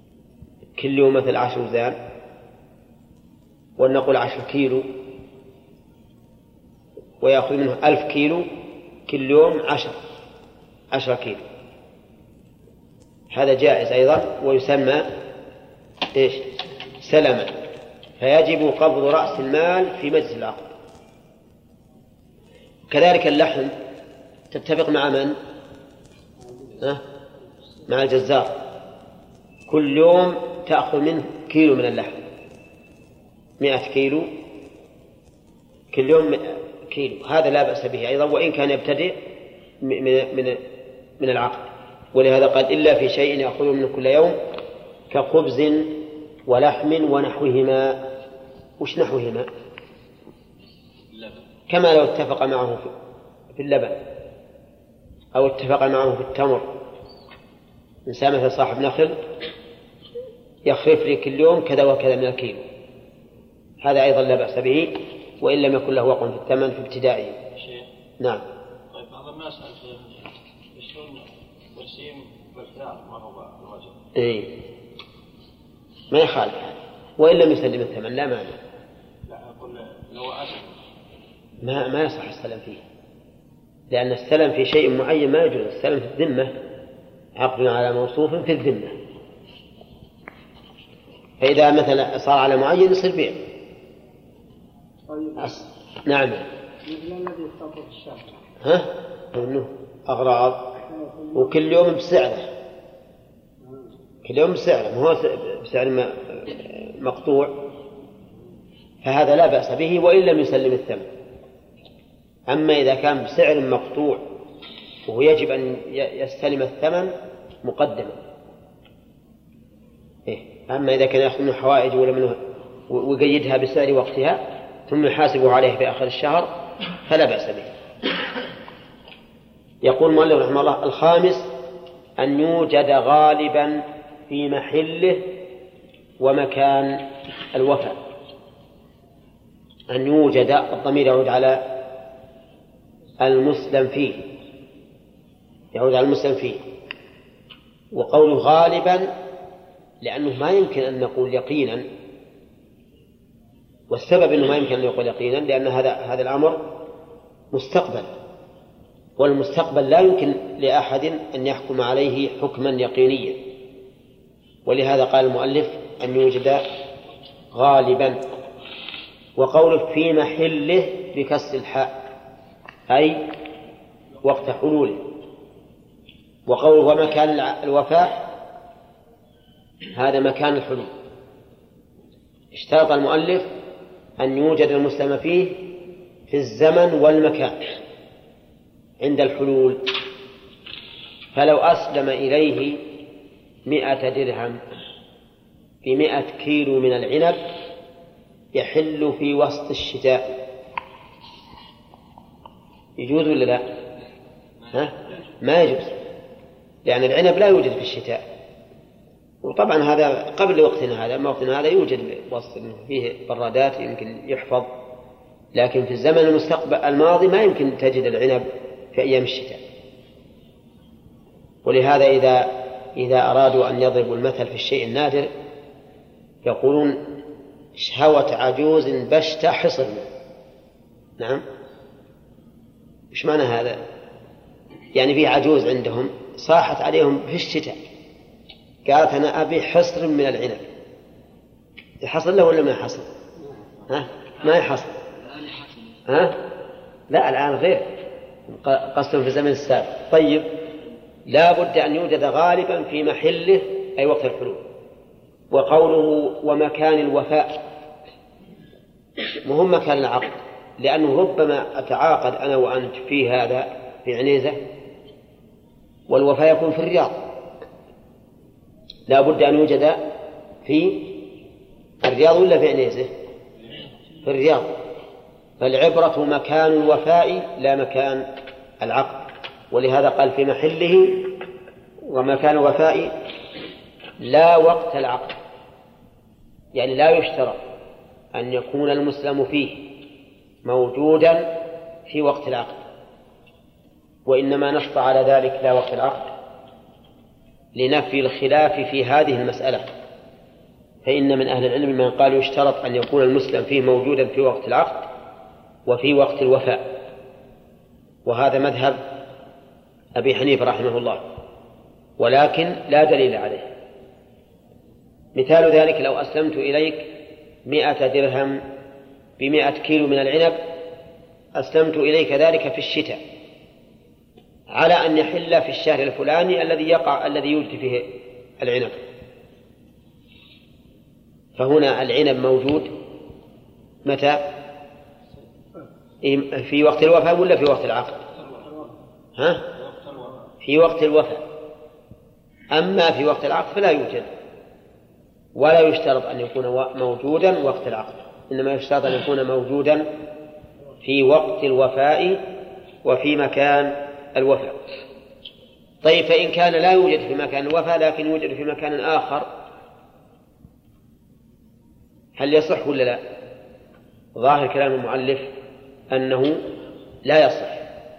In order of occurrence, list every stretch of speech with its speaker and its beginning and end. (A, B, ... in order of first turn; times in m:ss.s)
0:00.8-0:02.0 A
0:03.8-0:04.8 A
0:07.2-0:08.5 A
0:09.1-0:10.0 A
0:10.9-0:11.4 A
0:13.3-0:15.1 A
0:16.1-0:16.4 A
0:17.0-0:17.5 A
0:18.2-0:20.6 A
0:22.9-0:23.7 A
0:24.5-0:25.4 A
0:27.9-0:28.5 A
0:29.7-0:32.2 A
0:33.6-0:34.3 A
0:35.9-0:39.2 A
0:39.8-0:40.6 A
0:41.2-0:44.4 A
0:45.1-0:45.9 A
0:46.5-0:48.0 A
0:48.8-0:49.5 A
0:51.1-0:51.4 B
0:51.7-0:52.9 A
0:53.5-0:54.0 A
0:55.3-0:56.7 A
0:58.0-0:59.2 A
1:00.6-1:02.6 A
1:03.8-1:07.4 A
1:07.5-1:07.9 B
1:08.9-1:14.0 B
1:14.1-1:14.5 A
1:16.1-1:18.6 A
1:19.2-1:20.8 B
1:21.6-1:22.8 A
1:23.9-1:26.5 A
1:27.4-1:28.9 A
1:31.4-1:33.4 A
1:35.1-1:35.6 C
1:35.4-1:36.4 A
1:36.8-1:38.4 C
1:38.6-1:40.6 A
1:40.9-1:41.6 C
1:41.3-1:42.4 A
1:44.2-1:47.5 A
1:49.0-1:51.0 A
1:52.5-1:54.2 A
1:55.0-1:57.1 A
1:57.6-1:58.2 A
2:00.3-2:06.5 A
2:07.0-2:07.7 A
2:09.8-2:11.5 A
2:12.2-2:15.2 A
2:16.2-2:17.0 A
2:17.5-2:18.0 A
2:19.9-2:21.6 A
2:23.2-2:24.2 A
2:25.7-2:26.6 A
2:27.9-2:29.1 A
2:30.0-2:31.8 A
2:33.9-2:36.6 A
2:37.5-2:38.1 A
2:39.2-2:43.4 A
2:44.6-2:46.6 A
2:47.5-2:48.2 A
2:49.4-2:51.9 A
2:52.9-2:53.2 A
2:54.2-2:55.0 A
2:56.5-2:58.2 A
2:59.9-3:00.9 A
3:02.5-3:03.5 A
3:04.2-3:05.6 A
3:06.3-3:07.6 A
3:09.0-3:09.8 A
3:11.3-3:12.8 A
3:13.6-3:14.6 A
3:15.8-3:17.4 A
3:18.5-3:20.3 A
3:23.0-3:23.6 A
3:24.7-3:26.0 A
3:26.8-3:28.2 A
3:29.4-3:34.7 A
3:35.5-3:39.6 A
3:41.6-3:45.3 A
3:46.4-3:47.0 A
3:47.8-3:50.1 A
3:53.1-3:53.8 A
3:54.9-3:57.8 A
3:58.8-4:00.7 A
4:02.0-4:03.1 A
4:03.9-4:04.9 A
4:05.2-4:05.9 B
4:06.1-4:06.3 A
4:07.1-4:07.9 A
4:08.5-4:10.5 A
4:11.3-4:14.6 A
4:15.5-4:17.6 A
4:19.4-4:24.6 A
4:26.1-4:27.2 A
4:29.1-4:30.0 A
4:30.6-4:31.1 A
4:32.0-4:33.1 A
4:34.2-4:34.7 A
4:35.6-4:38.2 A
4:38.8-4:41.3 A
4:42.1-4:43.1 A
4:44.2-4:45.3 A
4:46.7-4:47.6 A
4:48.3-4:49.8 A
4:50.6-4:51.5 A
4:52.1-4:52.8 A
4:54.2-4:56.3 A
4:57.7-4:59.8 A
5:01.0-5:05.1 A
5:05.8-5:06.9 A
5:08.2-5:09.0 A
5:10.2-5:11.2 A
5:12.2-5:13.7 A
5:15.4-5:17.0 A
5:17.6-5:18.6 A
5:19.4-5:20.6 A
5:21.6-5:23.2 A
5:24.7-5:28.1 A
5:28.6-5:29.0 A
5:31.6-5:32.9 A
5:34.0-5:34.4 A
5:36.2-5:38.2 A
5:38.4-5:38.8 B
5:39.4-5:39.6 A
5:39.7-5:40.5 B
5:40.6-5:41.4 A
5:42.7-5:44.3 A
5:45.6-5:50.1 A
5:51.0-5:52.4 A
5:53.0-5:54.8 A
5:56.0-5:59.5 A
6:02.4-6:03.2 A
6:04.4-6:05.5 A
6:06.1-6:06.6 A
6:07.2-6:07.8 A